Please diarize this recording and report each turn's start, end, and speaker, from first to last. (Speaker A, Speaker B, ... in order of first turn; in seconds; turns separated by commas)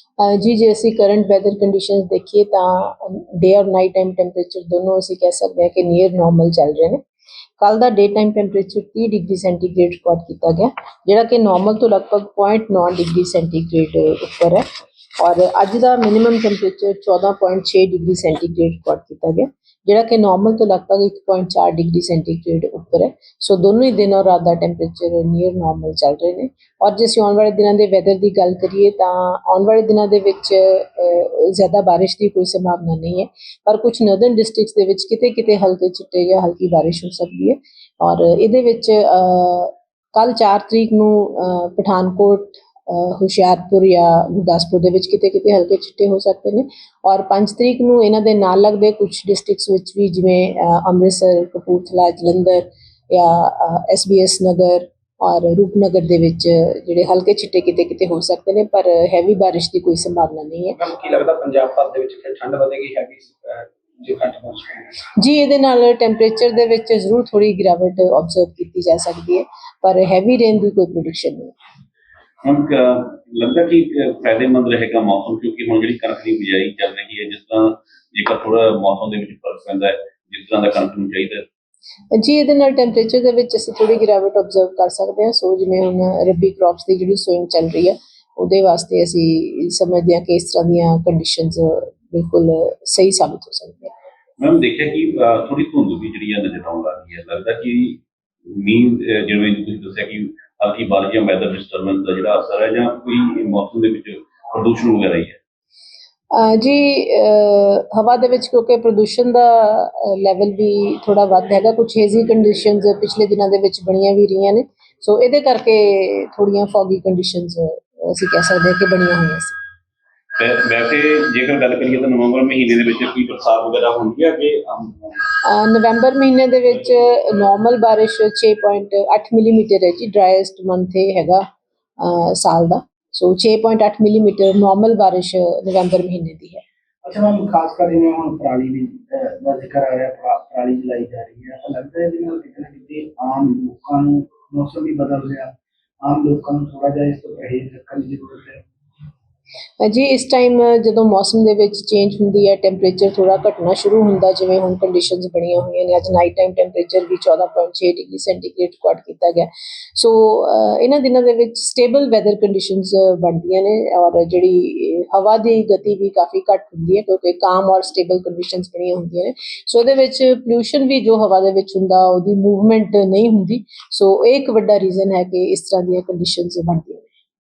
Speaker A: 0.2-7.0, Speaker A: 7.6-14.7, Speaker A: 15.2-60.8, Speaker B: 60.8-65.0, Speaker A: 65.2-71.5, Speaker C: 72.4-81.5, Speaker A: 82.1-93.9, Speaker C: 94.4-105.4, Speaker A: 106.3-119.6, Speaker C: 120.4-125.2, Speaker A: 125.4-131.4, Speaker A: 132.0-136.6, Speaker B: 137.1-145.5, Speaker B: 146.1-148.6, Speaker A: 149.8-177.1